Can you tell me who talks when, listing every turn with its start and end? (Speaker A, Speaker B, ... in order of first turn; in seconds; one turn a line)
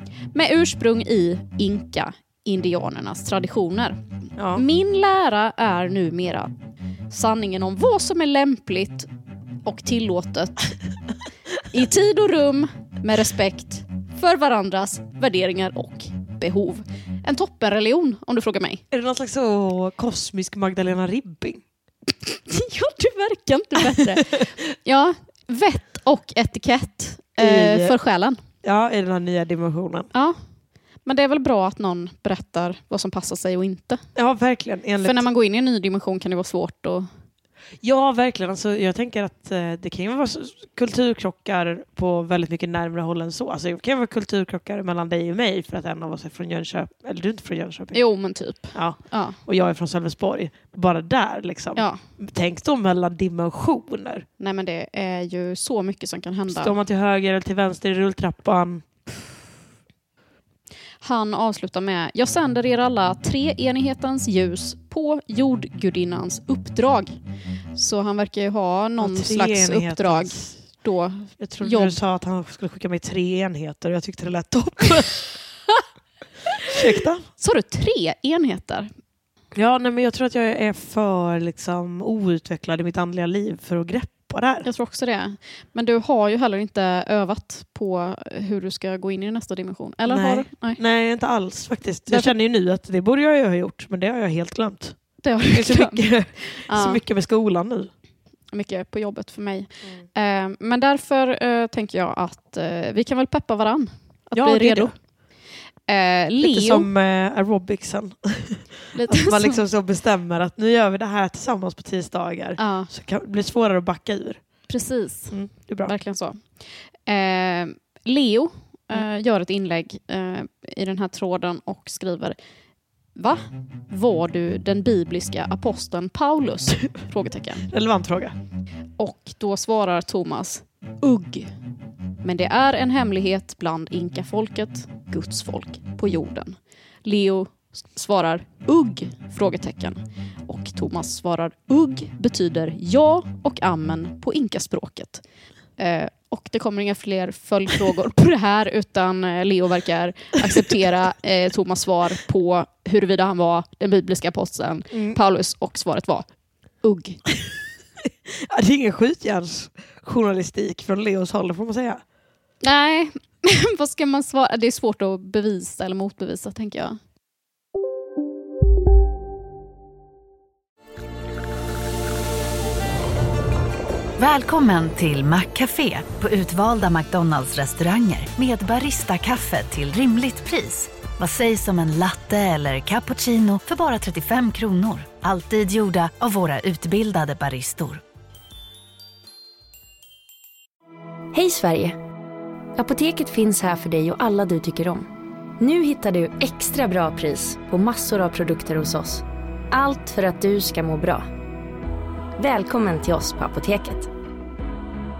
Speaker A: 0.3-4.0
Speaker B: 4.4-4.6
Speaker A: 4.5-6.5
Speaker A: 7.1-9.1
Speaker A: 9.6-10.7
Speaker A: 11.7-18.8
Speaker B: 18.9-21.6
Speaker A: 22.2-28.4
Speaker B: 27.4-27.9
Speaker B: 28.6-30.1
Speaker A: 31.1-34.0
Speaker B: 34.1-35.2
Speaker A: 35.0-37.1
Speaker B: 37.8-48.0
Speaker A: 47.9-49.4
Speaker B: 48.7-54.2
Speaker A: 54.4-56.7
Speaker B: 56.5-58.8
Speaker A: 61.0-67.1
Speaker A: 67.7-72.0
Speaker B: 69.0-70.5
Speaker B: 71.4-75.3
Speaker B: 76.6-77.2
Speaker A: 77.4-78.9
Speaker B: 79.5-84.7
Speaker A: 84.6-90.8
Speaker B: 90.1-97.9
Speaker A: 92.1-92.3
Speaker A: 95.2-96.0
Speaker A: 96.7-97.0
Speaker A: 98.5-104.9
Speaker B: 104.3-104.9
Speaker A: 105.9-106.9
Speaker B: 106.4-114.4
Speaker A: 108.9-109.6
Speaker A: 112.6-112.9
Speaker A: 114.7-116.4
Speaker B: 115.3-115.9
Speaker A: 117.1-122.3
Speaker A: 123.2-127.7
Speaker B: 127.7-128.3
Speaker A: 129.0-131.5
Speaker A: 132.2-145.2
Speaker A: 145.8-156.2
Speaker B: 154.9-155.2
Speaker A: 156.8-157.2
Speaker B: 158.3-162.0
Speaker A: 162.6-167.0
Speaker C: 174.2-188.0
Speaker D: 191.3-192.0
Speaker D: 192.8-195.1
Speaker D: 195.6-201.3
Speaker D: 202.4-204.1